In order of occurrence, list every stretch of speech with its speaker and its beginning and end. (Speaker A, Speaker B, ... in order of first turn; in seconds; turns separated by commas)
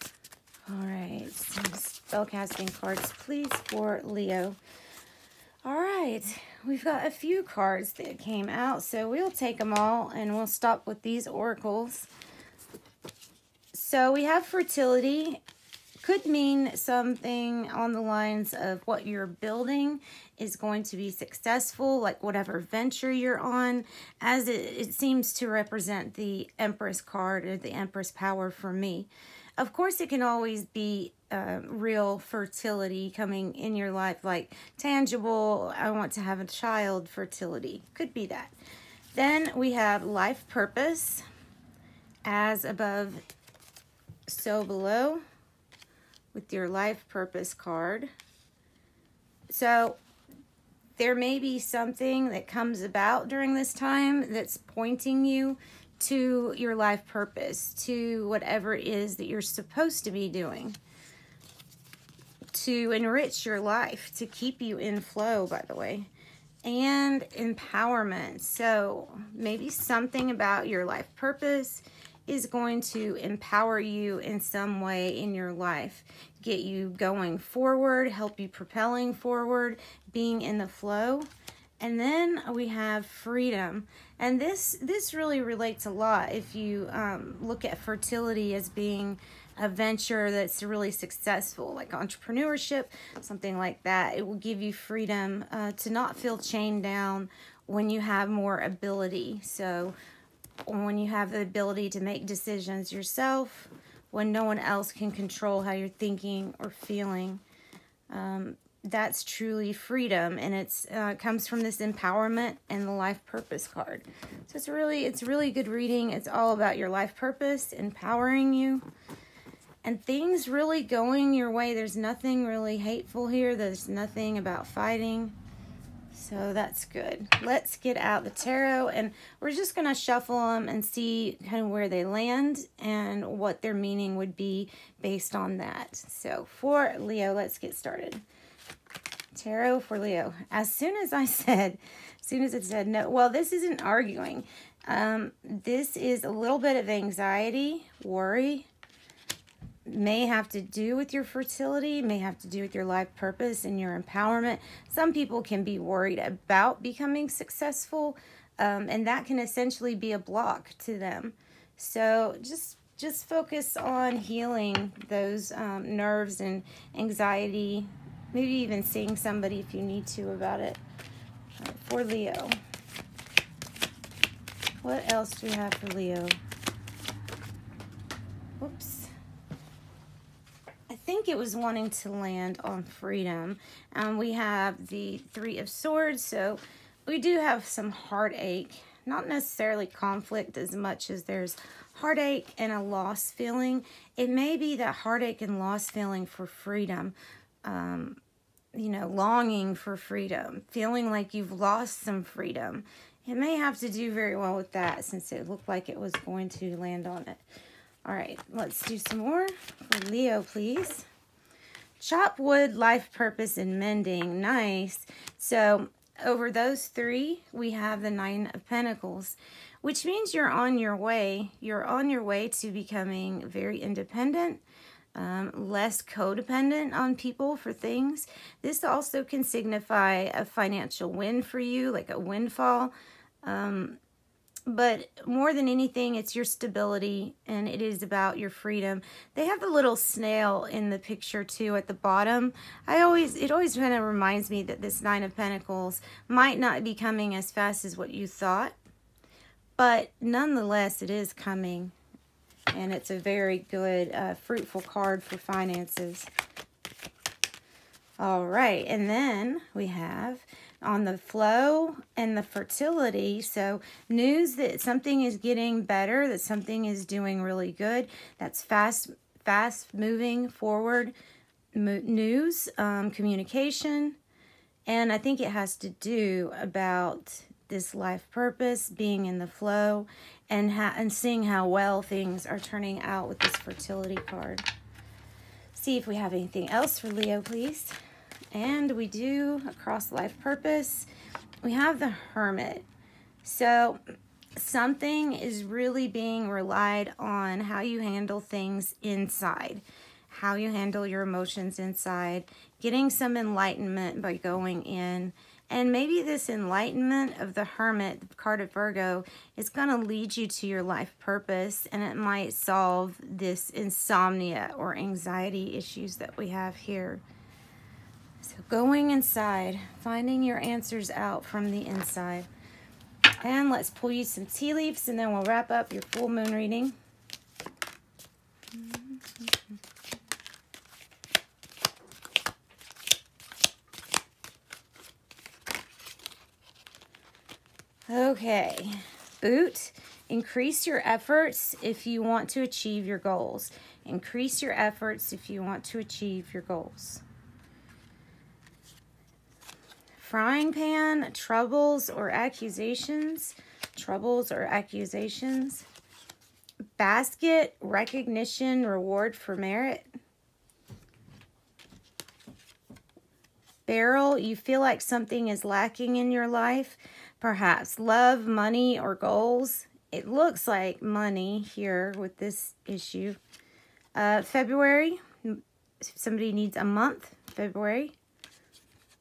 Speaker A: 0.7-4.6, Speaker A: 5.6-12.1, Speaker A: 13.7-15.4, Speaker A: 16.0-38.5, Speaker A: 39.1-41.2, Speaker A: 42.2-43.2, Speaker A: 44.3-45.2, Speaker A: 46.3-48.1, Speaker A: 49.5-50.0, Speaker A: 51.0-60.8, Speaker A: 62.5-66.1, Speaker A: 66.6-81.3, Speaker A: 81.8-99.9, Speaker A: 100.7-107.4, Speaker A: 108.1-118.8, Speaker A: 119.8-125.3, Speaker A: 126.1-138.2, Speaker A: 139.3-148.7, Speaker A: 149.8-170.8, Speaker A: 171.6-172.6, Speaker A: 174.8-176.4, Speaker A: 178.6-179.1, Speaker A: 180.9-198.2, Speaker A: 198.7-207.4, Speaker A: 208.0-211.1, Speaker A: 212.0-224.6, Speaker A: 225.1-234.0, Speaker A: 234.7-248.7, Speaker A: 249.8-251.9, Speaker A: 252.7-256.3, Speaker A: 258.2-271.1, Speaker A: 271.7-274.2, Speaker A: 274.9-284.6, Speaker A: 285.7-287.9, Speaker A: 288.5-291.1, Speaker A: 291.6-292.9, Speaker A: 293.4-294.0, Speaker A: 294.6-317.2, Speaker A: 318.4-322.5, Speaker A: 323.4-326.9, Speaker A: 328.7-329.5, Speaker A: 338.1-347.2, Speaker A: 350.2-355.9, Speaker A: 357.0-360.1, Speaker A: 363.9-373.4, Speaker A: 374.1-378.1